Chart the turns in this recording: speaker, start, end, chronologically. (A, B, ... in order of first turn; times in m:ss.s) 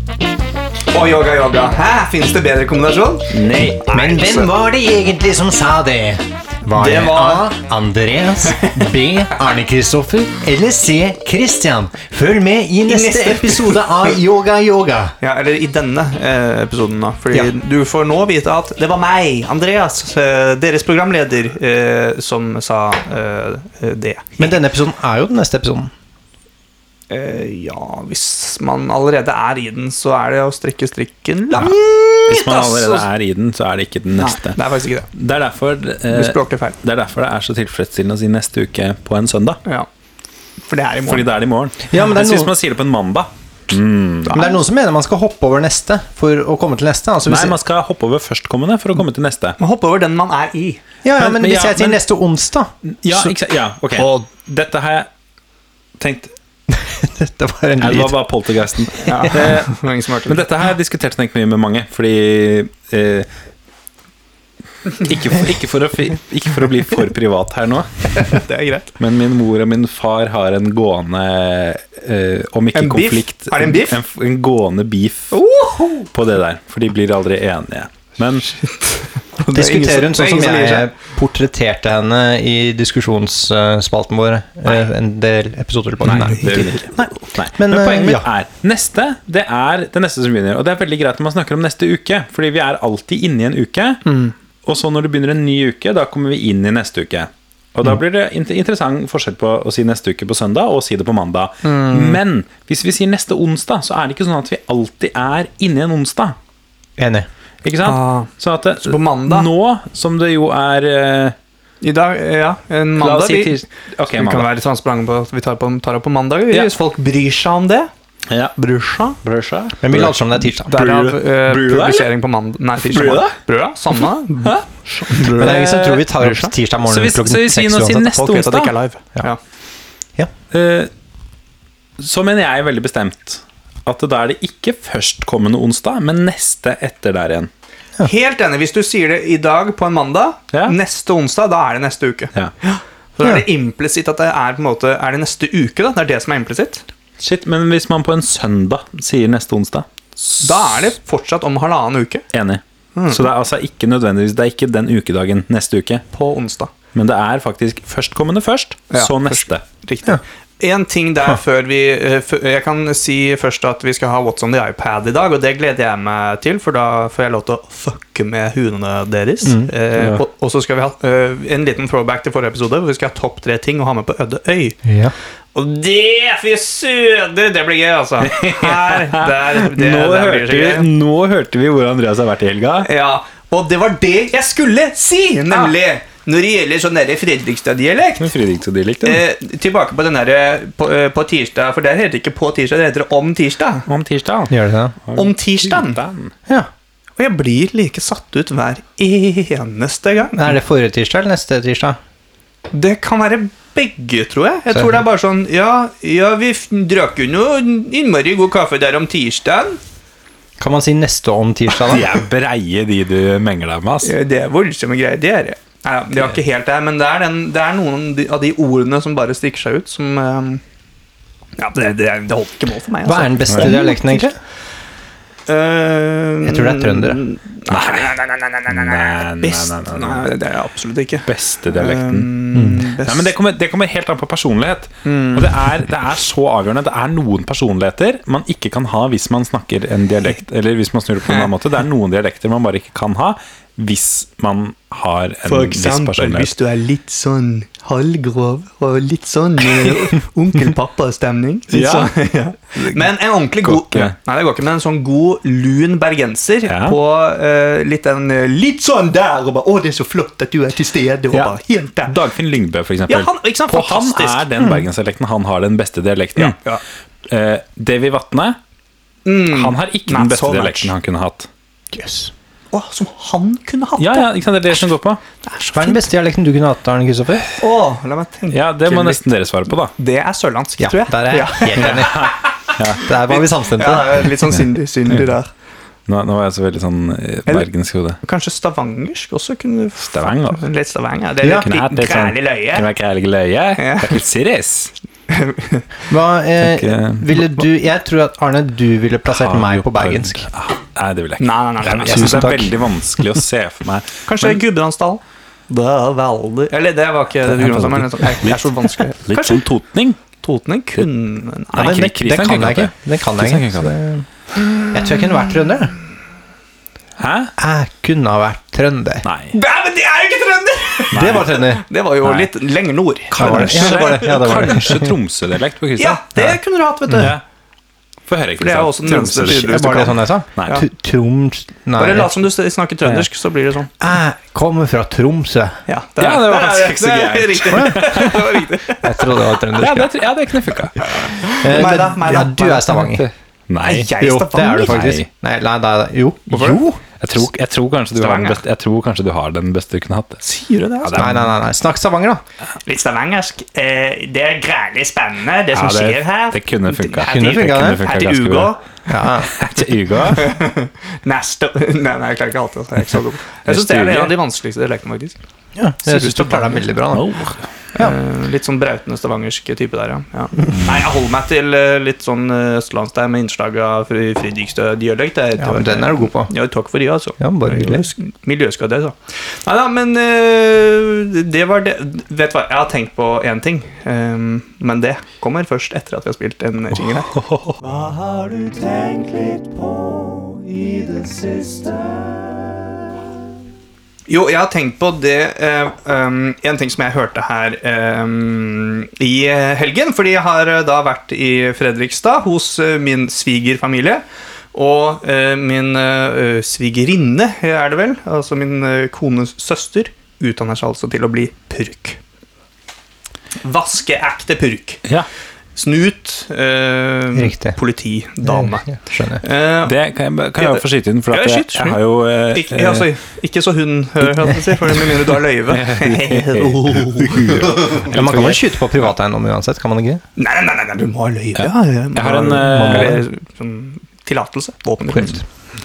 0:00.9-0:04.5 A
0:03.3-0:03.8 B
0:03.9-0:15.1 C
0:06.7-0:07.5 A
0:12.9-0:14.1 A
0:15.2-0:24.4 A
0:24.4-0:25.9 C
0:27.1-0:33.0 A
0:32.3-0:34.6 B
0:34.2-0:35.1 A
0:35.1-0:39.6 B
0:36.1-0:36.8 A
0:40.7-0:41.3 A
0:41.0-0:44.3 B
0:41.9-0:42.5 C
0:44.2-0:44.6 A
0:44.3-0:47.5 C
0:47.3-0:49.6 B
0:49.6-0:50.8 A
0:51.0-0:52.7 C
0:51.2-0:52.0 B
0:53.0-0:55.1 B
0:53.9-0:54.2 A
0:56.0-0:56.3 B
0:56.7-0:58.2 C
0:57.8-1:03.3 B
0:59.0-1:00.4 A
1:04.9-1:08.4 B
1:08.1-1:08.9 A
1:09.0-1:15.4 B
1:12.7-1:14.0 A
1:15.3-1:16.1 A
1:16.1-1:18.6 B
1:18.9-1:20.9 A
1:19.5-1:28.3 C
1:26.0-1:26.9 A
1:26.0-1:34.0 B
1:34.0-1:34.3 A
1:34.6-1:46.4 B
1:41.6-1:42.2 C
1:47.0-1:47.3 C
1:47.6-1:51.4 B
1:47.8-1:49.5 A
1:51.8-1:57.9 A
1:53.0-1:54.5 B
1:58.3-1:58.5 B
1:58.6-1:59.2 A
1:59.2-2:02.1 B
1:59.8-2:00.7 C
2:00.6-2:06.5 A
2:02.8-2:03.4 B
2:03.9-2:08.7 B
2:05.3-2:08.1 C
2:08.1-2:09.4 A
2:10.5-2:10.9 B
2:12.0-2:17.5 B
2:18.0-2:26.8 A
2:27.2-2:30.7 B
2:30.4-2:32.2 A
2:32.3-2:36.0 B
2:32.9-2:33.2 A
2:36.1-2:36.7 A
2:36.9-2:39.6 B
2:38.9-2:54.8 A
2:49.4-2:49.7 C
2:50.0-2:50.2 B
2:54.8-2:55.1 C
2:55.5-3:00.9 A
2:58.2-3:02.9 B
3:02.8-3:08.4 A
3:08.2-3:09.2 B
3:09.0-3:13.9 A
3:13.9-3:16.3 B
3:14.5-3:14.9 C
3:15.1-3:16.0 A
3:17.2-3:20.5 A
3:20.3-3:22.0 C
3:22.7-3:29.8 A
3:30.6-3:32.1 C
3:31.8-3:34.1 B
3:34.0-3:40.6 A
3:41.6-3:44.3 A
3:43.0-3:44.4 C
3:45.5-3:53.3 A
3:46.4-3:47.2 C
3:47.7-3:50.3 B
3:51.2-4:06.5 B
3:55.0-3:55.5 A
4:05.4-4:22.2 A
4:11.7-4:12.1 B
4:13.6-4:14.1 B
4:16.7-4:17.0 B
4:21.3-4:26.6 B
4:23.1-4:24.4 A
4:26.4-4:26.8 A
4:27.3-4:28.6 B
4:29.2-4:30.9 A
4:29.5-4:31.5 B
4:31.9-4:32.3 C
4:32.7-4:34.8 A
4:34.0-4:35.2 B
4:35.4-4:36.0 A
4:35.7-4:37.4 C
4:37.6-4:39.2 A
4:38.5-4:39.9 B
4:39.9-4:42.3 A
4:40.8-4:42.3 C
4:41.8-4:43.0 B
4:43.0-4:44.3 C
4:43.2-4:45.5 A
4:46.1-4:48.2 B
4:48.2-4:52.9 A
4:50.0-4:50.6 B
4:51.5-4:54.9 B
4:53.8-4:54.2 A
4:55.3-4:55.9 A
4:56.1-5:00.5 C
4:56.6-4:57.6 B
4:59.3-5:04.6 B
5:01.4-5:02.7 A
5:02.0-5:02.7 C
5:04.2-5:09.6 A
5:07.5-5:08.6 B
5:09.2-5:10.2 B
5:10.3-5:12.1 A
5:11.7-5:13.9 B
5:11.7-5:14.2 C
5:14.8-5:16.0 C
5:17.2-5:17.5 B
5:17.6-5:19.2 C
5:19.2-5:19.5 B
5:19.5-5:24.8 A
5:21.1-5:21.5 B
5:21.1-5:21.8 C
5:22.2-5:22.5 B
5:23.3-5:26.5 B
5:23.4-5:25.2 C
5:26.0-5:27.3 A
5:27.1-5:27.4 B
5:28.3-5:29.9 B
5:28.6-5:30.8 A
5:29.5-5:32.3 C
5:32.0-5:33.9 A
5:34.0-5:35.8 C
5:35.9-5:39.3 A
5:36.2-5:38.6 B
5:37.7-5:38.2 C
5:39.0-5:40.1 C
5:39.7-5:41.0 B
5:41.0-5:43.2 A
5:41.6-5:43.3 C
5:43.0-5:44.1 B
5:43.8-5:45.1 A
5:44.2-5:47.0 C
5:44.8-5:45.3 B
5:46.5-5:46.8 A
5:47.2-5:50.4 B
5:48.1-5:48.6 A
5:50.4-5:51.3 A
5:51.0-5:51.5 B
5:51.1-5:52.4 C
5:52.8-5:58.8 A
5:55.7-5:58.7 B
5:57.3-5:58.0 C
5:59.1-5:59.5 C
5:59.5-6:00.5 B
6:00.3-6:05.4 A
6:03.6-6:04.3 B
6:05.8-6:07.4 C
6:06.0-6:06.9 A
6:07.1-6:07.6 B
6:08.0-6:32.1 A
6:15.6-6:16.5 C
6:17.4-6:18.1 C
6:27.3-6:27.8 B
6:34.3-6:52.2 A
6:53.6-6:55.0 A
6:55.7-7:00.0 A
6:57.3-6:57.8 C
6:58.4-6:59.4 C
6:59.8-7:03.1 B
7:00.6-7:02.0 A
7:02.5-7:08.0 A
7:04.9-7:08.8 B
7:08.0-7:10.2 C
7:10.4-7:15.4 A
7:11.6-7:13.2 B
7:12.6-7:13.2 C